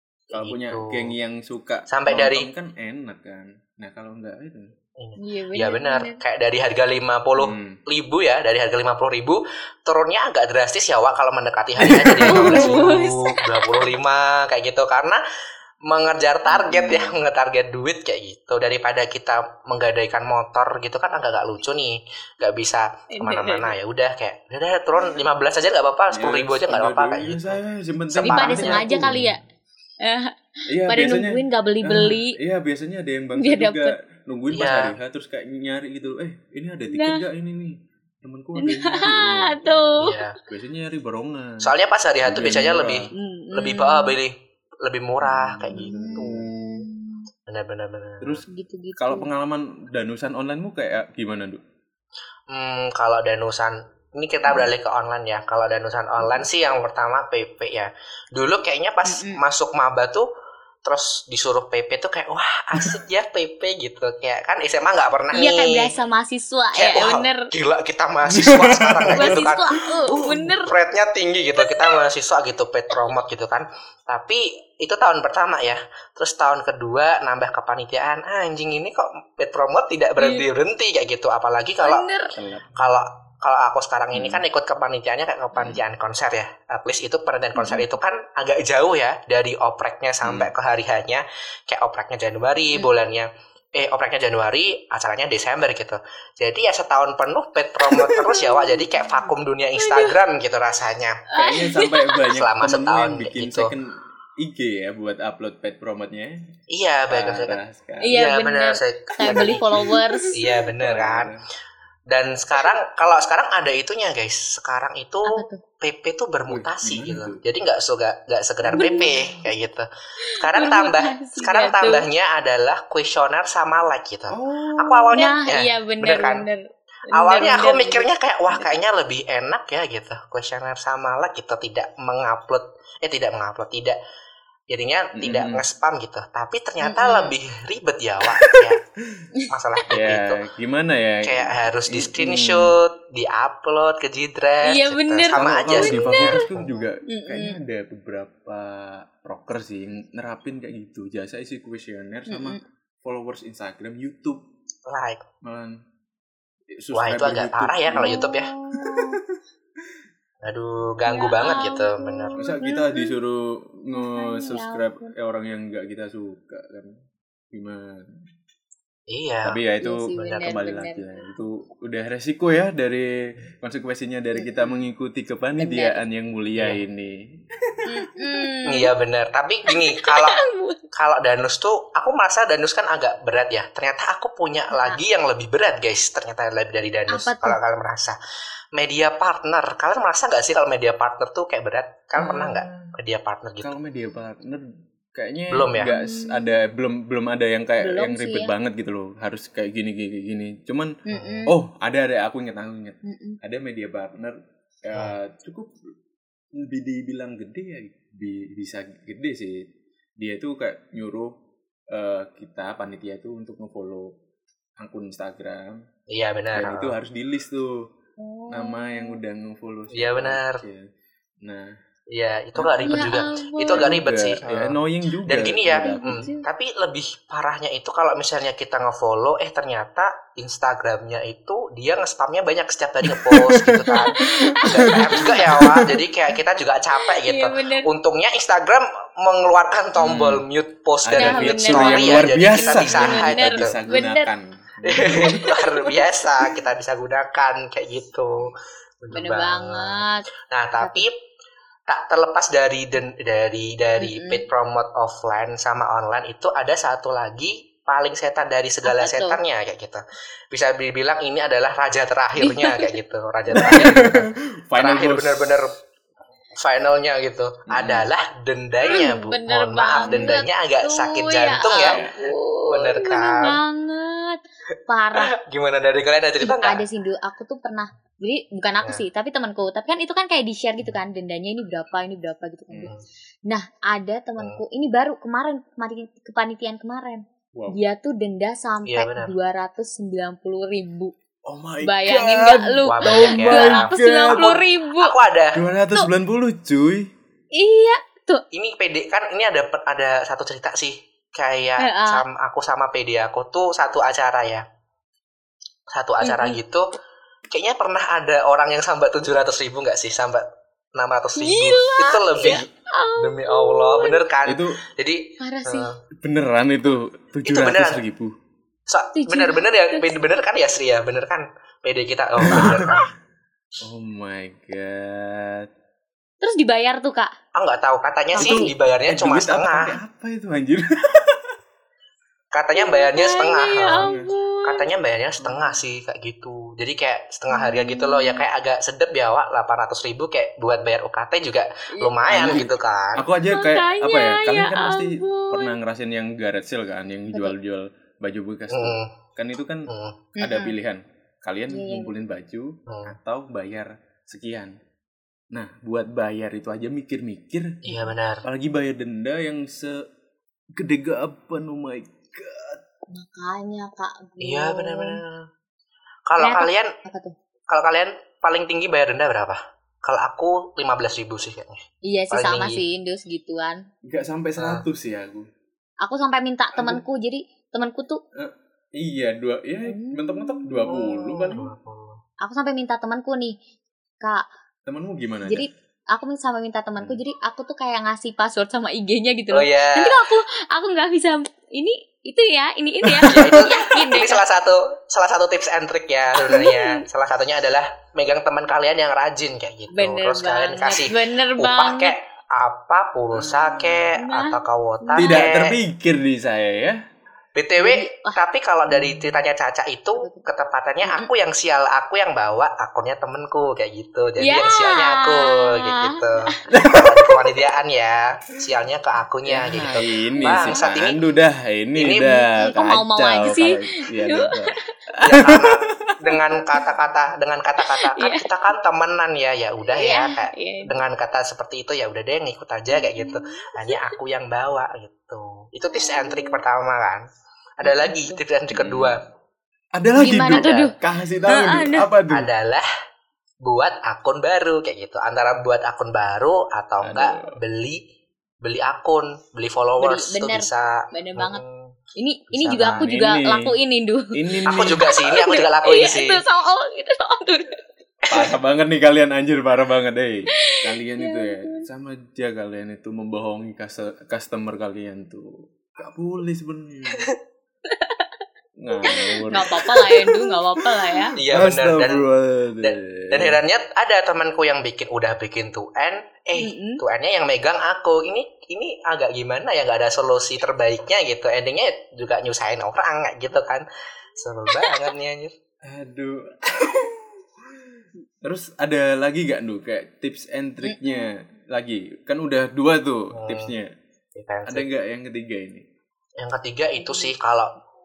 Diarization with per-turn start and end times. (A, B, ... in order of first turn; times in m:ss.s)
0:00.3-0:04.7 A
0:00.3-0:01.1 B
0:01.9-0:02.5 B
0:05.0-0:15.2 B
0:05.2-0:06.2 C
0:07.4-0:07.8 A
0:11.8-0:13.0 A
0:12.2-0:13.9 C
0:15.9-0:29.2 B
0:16.5-0:17.2 A
0:23.1-0:23.7 C
0:26.1-0:29.3 A
0:28.2-0:29.4 C
0:30.0-0:30.3 C
0:30.7-0:43.1 A
0:30.8-0:32.4 C
0:33.4-0:33.9 C
0:34.5-0:34.9 B
0:36.9-0:37.2 C
0:38.6-0:40.2 C
0:40.0-0:40.3 B
0:41.6-0:46.5 B
0:43.2-0:44.2 C
0:45.2-0:46.9 A
0:45.7-0:47.2 C
0:47.5-0:48.4 B
0:48.2-0:51.6 A
0:48.5-0:49.2 C
0:52.5-1:00.3 B
0:59.0-0:59.4 C
1:00.8-1:05.9 B
1:05.3-1:07.5 C
1:06.7-1:22.0 B
1:08.3-1:10.5 A
1:09.1-1:10.7 C
1:11.6-1:12.0 C
1:20.2-1:20.4 C
1:21.8-1:22.3 C
1:22.3-1:22.7 A
1:22.8-1:41.2 B
1:24.1-1:24.4 A
1:25.6-1:25.8 A
1:27.6-1:27.8 C
1:30.2-1:30.5 A
1:37.9-1:38.8 C
1:39.8-1:40.2 C
1:41.3-1:42.2 C
1:41.3-1:46.4 A
1:42.3-1:43.7 B
1:46.7-1:47.6 B
1:47.1-1:48.2 A
1:48.0-1:50.4 C
1:48.1-1:51.3 B
1:49.2-1:51.4 A
1:52.1-2:06.4 B
1:55.2-1:55.6 C
1:56.5-1:57.4 A
1:58.6-1:59.3 A
1:58.7-1:59.3 C
2:00.2-2:02.1 C
2:04.3-2:05.2 A
2:05.1-2:08.1 C
2:07.1-2:14.0 B
2:14.7-2:18.8 B
2:15.2-2:15.6 A
2:16.8-2:17.3 C
2:18.4-2:19.3 A
2:19.5-2:20.4 B
2:19.9-2:22.8 A
2:21.2-2:26.7 B
2:24.6-2:26.5 C
2:25.3-2:34.4 A
2:27.1-2:27.6 C
2:32.3-2:32.6 C
2:34.9-2:35.2 B
2:35.4-2:35.8 A
2:36.7-2:39.4 A
2:36.9-2:38.5 B
2:37.9-2:39.2 C
2:40.4-2:42.4 B
2:41.0-2:43.2 C
2:42.4-2:47.0 A
2:43.9-2:45.1 C
2:47.5-2:48.2 A
2:49.1-2:49.6 B
2:49.4-2:57.8 A
2:49.8-2:51.0 C
2:54.4-2:54.7 C
2:55.6-2:56.0 C
2:57.9-2:58.9 C
2:58.6-3:00.4 B
2:59.7-3:00.8 C
3:00.9-3:08.2 B
3:04.7-3:05.0 C
3:07.1-3:07.6 C
3:08.7-3:13.7 B
3:12.2-3:12.9 A
3:13.6-3:25.8 A
3:15.5-3:15.9 B
3:15.8-3:16.5 C
3:17.8-3:18.5 C
3:21.1-3:21.6 C
3:23.0-3:23.4 C
3:26.5-3:31.4 A
3:31.9-3:34.2 A
3:34.8-3:35.8 A
3:36.1-3:37.0 B
3:36.5-3:37.8 A
3:38.2-3:39.2 C
3:38.5-3:40.9 A
3:39.9-3:40.6 B
3:41.4-3:41.8 A
3:42.1-4:03.8 B
3:42.6-3:42.9 A
3:42.8-3:43.9 C
3:43.7-3:46.3 A
3:45.8-3:46.5 C
3:53.0-3:55.8 A
3:53.9-3:55.7 C
3:57.0-3:57.9 C
4:00.0-4:00.4 A
4:01.0-4:05.6 A
4:01.2-4:04.3 C
4:04.8-4:11.1 B
4:05.1-4:05.9 C
4:09.1-4:10.2 C
4:10.8-4:11.0 C
4:11.9-4:25.7 B
4:14.0-4:14.4 C
4:18.8-4:19.4 C
4:22.4-4:23.0 C
4:23.5-4:25.6 A
4:26.6-4:32.0 B
4:27.7-4:28.1 A
4:28.8-4:35.3 C
4:30.0-4:30.4 A
4:31.8-4:32.2 A
4:32.7-4:33.6 B
4:35.1-4:36.8 B
4:36.4-4:42.9 C
4:43.5-4:51.1 C
4:47.5-4:47.8 A
4:48.8-4:49.3 B
4:51.4-4:54.6 A
4:51.8-4:55.2 C
4:52.9-4:55.6 B
4:55.5-4:57.1 A
4:57.5-4:58.4 C
4:58.5-5:04.6 B
5:01.8-5:02.2 C
5:05.9-5:06.9 B
5:06.2-5:06.6 C
5:07.5-5:16.0 B
5:11.4-5:14.2 C
5:14.4-5:14.8 A
5:15.4-5:15.9 C
5:16.2-5:18.3 A
5:17.4-5:18.0 B
5:18.9-5:23.1 B
5:19.1-5:20.2 C
5:22.4-5:23.0 A
5:23.8-5:25.7 A
5:26.4-5:27.3 C
5:27.5-5:30.0 B
5:28.3-5:28.7 C
5:28.4-5:31.5 A
5:32.5-5:34.1 B
5:32.8-5:34.8 C
5:34.0-5:34.3 A
5:34.6-5:43.2 B
5:37.5-5:38.4 C
5:41.9-5:42.2 C
5:42.3-5:54.8 A
5:43.5-5:45.7 C
5:48.7-5:49.1 B
5:49.9-5:50.2 B
5:50.4-5:50.7 C
5:51.7-5:52.1 C
5:52.9-5:53.2 B
5:55.5-6:00.0 A
5:57.8-5:58.4 B
6:00.8-6:02.8 A
6:03.1-6:05.2 C
6:04.4-6:05.4 B
6:06.3-6:06.9 B
6:06.4-6:07.3 C
6:07.7-6:12.8 B
6:12.0-6:13.8 C
6:14.0-6:15.5 A
6:14.6-6:14.8 B
6:16.0-6:18.2 C
6:16.8-6:17.0 A
6:18.3-6:21.7 A
6:19.8-6:21.5 C
6:21.5-6:22.2 B
6:22.4-6:23.5 C
6:24.8-6:25.6 A
6:25.5-6:34.4 C
6:29.5-6:30.2 B
6:33.0-6:33.6 A
6:33.2-6:45.8 B
6:36.4-6:37.0 C
6:39.9-6:42.1 C
6:43.3-6:44.2 A
6:44.2-6:45.4 C
6:45.2-6:47.0 A
6:47.6-7:01.2 B
6:47.8-6:48.4 C
6:48.9-6:49.2 A
6:50.2-6:50.4 C
6:51.0-6:51.3 C
6:54.4-6:56.5 C
6:56.7-6:57.3 A
6:59.4-7:05.7 A
7:00.3-7:00.8 C
7:02.0-7:02.4 B
7:02.5-7:04.6 C
7:05.2-7:17.2 B
7:07.8-7:08.5 C
7:09.9-7:10.9 C
7:12.9-7:14.2 C
7:15.9-7:16.6 C
7:17.8-7:19.2 B
7:17.8-7:18.4 C
7:18.7-7:19.2 A
7:20.0-7:22.5 A
7:20.2-7:20.9 C
7:20.2-7:20.8 B
7:21.5-7:22.1 C
7:22.3-7:22.9 B
7:23.6-7:28.0 B
7:27.0-7:27.6 A
7:28.6-7:31.9 B
7:30.0-7:31.6 C
7:32.2-7:37.8 C
7:32.5-7:33.0 B
7:32.8-7:33.7 A
7:34.3-7:35.1 A
7:34.7-7:36.4 B
7:38.3-7:47.3 A
7:40.6-7:41.8 C
7:47.9-7:48.2 C
7:48.8-7:50.8 A
7:49.0-7:51.3 C
7:51.4-7:52.3 B
7:51.5-7:53.6 A
7:52.8-8:03.8 B
7:56.6-7:57.0 C
8:04.4-8:05.5 B
8:05.8-8:13.9 A
8:10.8-8:11.2 C
8:13.3-8:13.7 B
8:14.3-8:14.9 B
8:14.7-8:15.8 A
8:16.4-8:17.7 B
8:17.0-8:17.3 C